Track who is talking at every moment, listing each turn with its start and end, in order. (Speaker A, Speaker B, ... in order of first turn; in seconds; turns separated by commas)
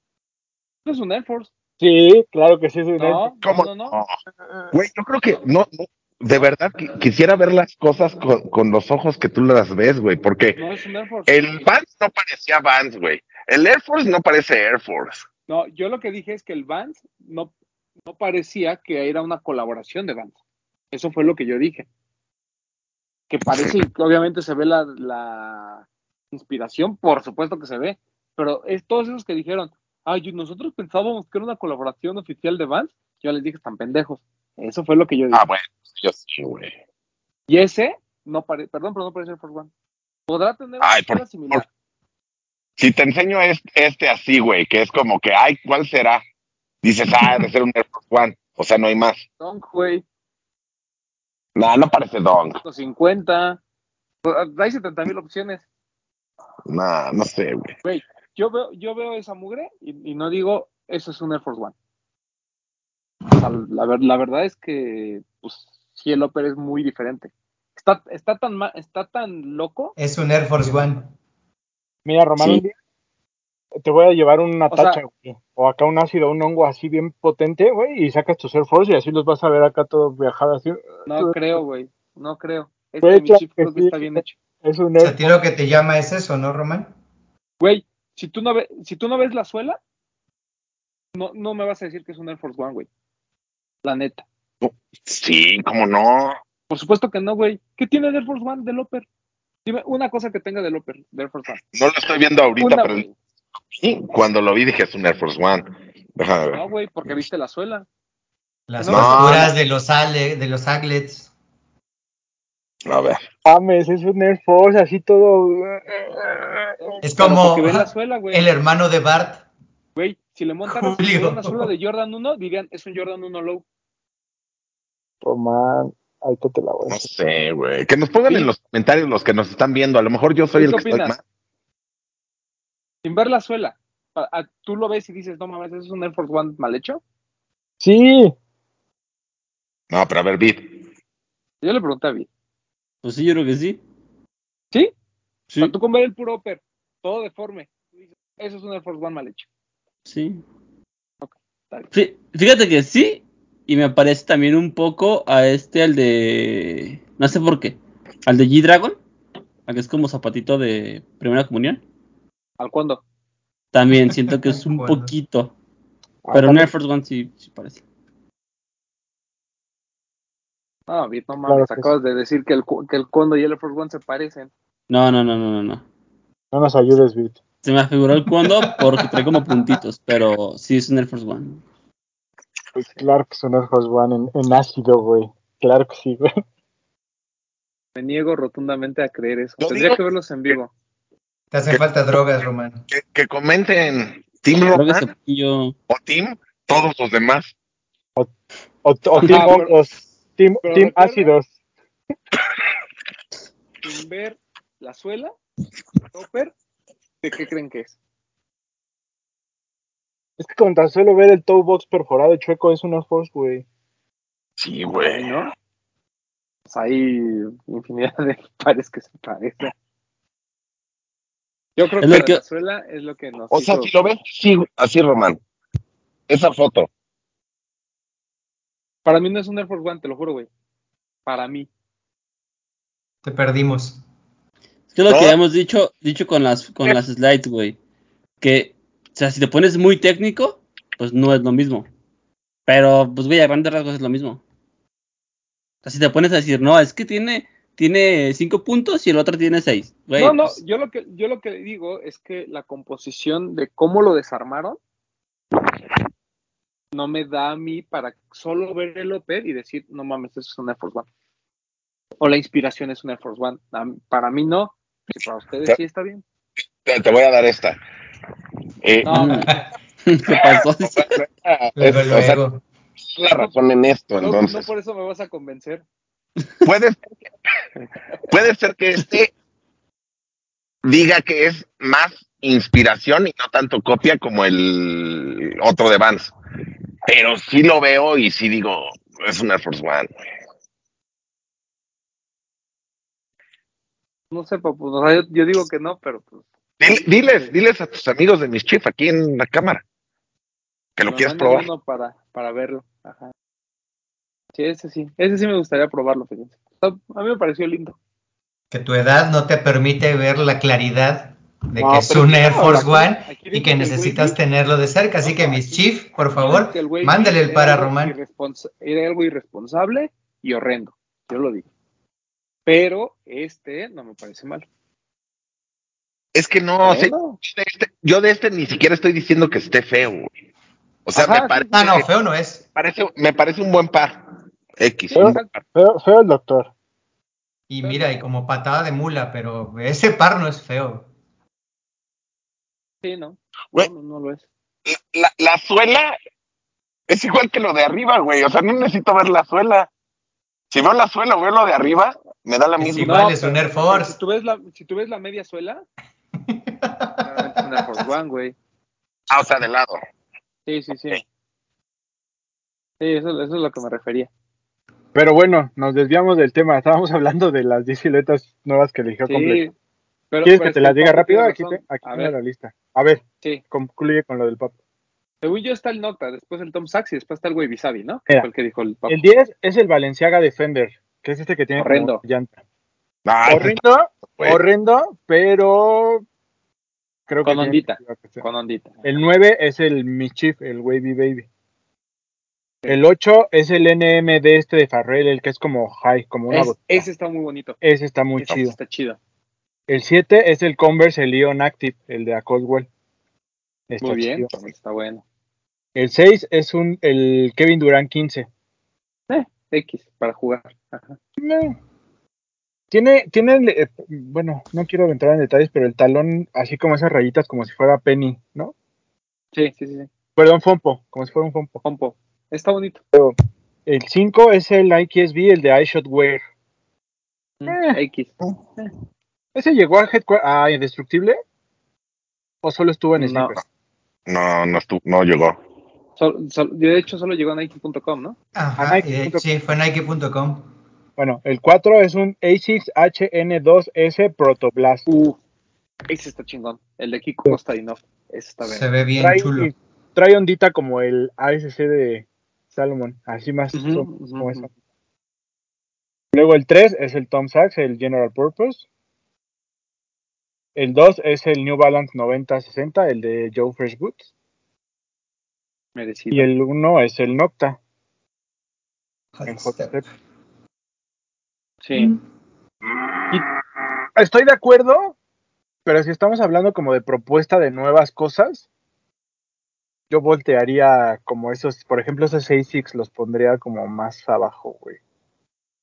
Speaker A: 0.8-1.5, Speaker B: 1.8-3.3, Speaker A: 3.0-4.0, Speaker C: 3.4-4.1, Speaker B: 4.5-4.7, Speaker C: 4.7-10.6, Speaker A: 10.6-11.4, Speaker C: 11.3-15.3, Speaker A: 15.5-17.5, Speaker A: 18.1-20.4, Speaker A: 20.9-21.9, Speaker A: 23.3-35.4, Speaker C: 35.3-36.7, Speaker A: 37.5-39.7, Speaker A: 40.3-41.7, Speaker C: 40.8-41.6, Speaker C: 42.8-46.2, Speaker C: 46.8-49.2, Speaker A: 49.4-50.0, Speaker C: 51.5-52.6, Speaker A: 52.6-53.6, Speaker A: 54.2-55.6, Speaker C: 56.7-57.8, Speaker A: 57.8-61.7, Speaker A: 63.4-70.0, Speaker D: 70.0-71.1, Speaker B: 72.0-72.7, Speaker B: 73.8-81.3, Speaker A: 74.7-75.0, Speaker A: 81.1-84.3, Speaker B: 83.0-85.3, Speaker D: 85.0-86.9, Speaker A: 87.6-89.8, Speaker A: 91.1-92.9, Speaker A: 93.8-94.2, Speaker C: 94.6-96.4, Speaker A: 96.7-99.0, Speaker A: 99.6-101.6, Speaker C: 101.6-103.0, Speaker A: 102.6-103.2, Speaker C: 103.7-107.2, Speaker A: 106.5-107.9, Speaker D: 108.7-111.3, Speaker A: 108.8-109.5, Speaker C: 108.9-109.5, Speaker C: 112.8-113.2, Speaker B: 113.4-117.0, Speaker A: 116.8-118.5, Speaker D: 117.0-119.4, Speaker A: 120.0-123.6, Speaker D: 120.7-121.7, Speaker B: 125.2-127.1, Speaker C: 126.9-131.2, Speaker A: 130.5-131.1, Speaker A: 133.0-137.0, Speaker B: 137.8-138.3, Speaker C: 139.9-140.8, Speaker A: 141.6-142.3, Speaker E: 143.0-143.8, Speaker A: 145.6-147.7, Speaker A: 148.4-149.5, Speaker E: 150.1-150.4, Speaker A: 151.2-151.9, Speaker E: 151.9-159.0, Speaker E: 159.7-161.8, Speaker A: 162.6-163.0, Speaker E: 163.7-165.5, Speaker D: 164.3-165.1, Speaker B: 166.2-166.7, Speaker E: 166.3-167.8, Speaker A: 170.9-174.5, Speaker B: 171.5-171.9, Speaker E: 174.9-175.8, Speaker B: 176.5-177.4, Speaker E: 177.6-181.6, Speaker D: 178.3-178.9, Speaker B: 182.7-186.4, Speaker A: 187.9-190.7, Speaker C: 189.6-190.0, Speaker D: 191.5-192.8, Speaker C: 192.9-195.1, Speaker E: 194.7-195.7, Speaker C: 195.9-197.5, Speaker B: 198.8-201.5, Speaker A: 199.1-199.8, Speaker A: 200.6-201.3, Speaker A: 203.8-205.3, Speaker A: 206.1-206.5, Speaker A: 207.2-207.9, Speaker B: 210.4-213.6, Speaker C: 214.6-215.3, Speaker A: 215.1-215.5, Speaker A: 216.7-219.7, Speaker A: 221.8-223.9, Speaker E: 222.0-222.4, Speaker C: 223.5-225.4, Speaker C: 226.3-226.9, Speaker A: 229.0-230.5, Speaker A: 231.2-231.7, Speaker D: 233.2-234.0, Speaker E: 234.9-237.8, Speaker C: 235.1-235.3, Speaker E: 238.4-241.9, Speaker E: 242.7-244.4, Speaker E: 245.8-250.6, Speaker A: 250.2-254.8, Speaker A: 256.9-261.1, Speaker A: 262.2-266.2, Speaker C: 266.8-267.8, Speaker C: 268.8-269.3, Speaker A: 269.0-269.5, Speaker E: 269.1-269.5, Speaker E: 270.1-271.2, Speaker C: 270.4-272.4, Speaker D: 271.8-272.6, Speaker C: 273.0-274.7, Speaker A: 274.2-275.8, Speaker C: 276.6-277.3, Speaker C: 278.3-279.3, Speaker C: 280.8-286.3, Speaker C: 287.1-290.2, Speaker A: 294.3-297.5, Speaker C: 296.8-299.8, Speaker C: 301.0-301.7, Speaker A: 301.1-303.3, Speaker A: 304.5-308.0, Speaker D: 308.7-318.2, Speaker B: 311.8-313.1, Speaker A: 312.4-314.4, Speaker A: 315.2-321.7, Speaker A: 322.6-324.6, Speaker C: 326.3-330.3, Speaker A: 326.8-327.4, Speaker C: 331.1-332.0, Speaker A: 331.1-332.0, Speaker D: 331.7-332.6, Speaker C: 332.7-334.2, Speaker C: 334.8-335.6, Speaker A: 335.1-335.5, Speaker B: 335.1-336.7, Speaker D: 337.7-341.1, Speaker A: 337.8-338.2, Speaker A: 343.0-344.4, Speaker C: 344.9-346.1, Speaker C: 347.1-349.9, Speaker C: 350.7-353.2, Speaker D: 352.8-354.1, Speaker A: 352.9-355.8, Speaker D: 356.4-357.6, Speaker A: 357.2-358.5, Speaker C: 359.3-360.0, Speaker A: 360.6-361.2, Speaker A: 363.0-364.3, Speaker B: 365.1-369.6, Speaker A: 369.3-369.7, Speaker A: 370.3-372.3, Speaker B: 370.4-374.7, Speaker A: 375.4-379.2, Speaker B: 379.1-382.6, Speaker A: 381.8-382.2, Speaker C: 383.2-383.8, Speaker B: 383.4-386.2, Speaker B: 387.3-388.4, Speaker A: 387.4-389.0, Speaker B: 389.0-391.5, Speaker B: 392.9-397.1, Speaker A: 396.5-397.8, Speaker B: 397.8-398.8, Speaker A: 398.4-399.2, Speaker B: 399.9-402.9, Speaker B: 403.9-404.5, Speaker A: 404.0-405.2, Speaker B: 405.9-408.5, Speaker A: 409.3-411.2, Speaker B: 411.4-411.8, Speaker B: 412.9-418.7, Speaker A: 419.5-420.1, Speaker B: 420.4-421.8, Speaker A: 421.8-423.0, Speaker B: 423.9-426.4, Speaker A: 427.6-428.9, Speaker B: 427.7-428.0, Speaker B: 429.5-431.4, Speaker B: 432.6-433.6, Speaker A: 433.2-433.6, Speaker C: 434.3-435.6, Speaker A: 436.2-438.4, Speaker D: 438.5-440.7, Speaker B: 438.8-439.4, Speaker B: 441.2-445.1, Speaker A: 445.1-445.4, Speaker A: 446.1-448.9, Speaker D: 448.6-449.7, Speaker B: 449.2-454.7, Speaker A: 453.7-454.7, Speaker B: 456.3-458.8, Speaker B: 460.8-464.2, Speaker A: 465.9-466.5, Speaker B: 466.3-467.8, Speaker D: 469.4-470.0, Speaker B: 469.4-470.0, Speaker A: 471.8-472.1, Speaker B: 474.1-475.1, Speaker B: 475.8-478.6, Speaker B: 480.1-485.0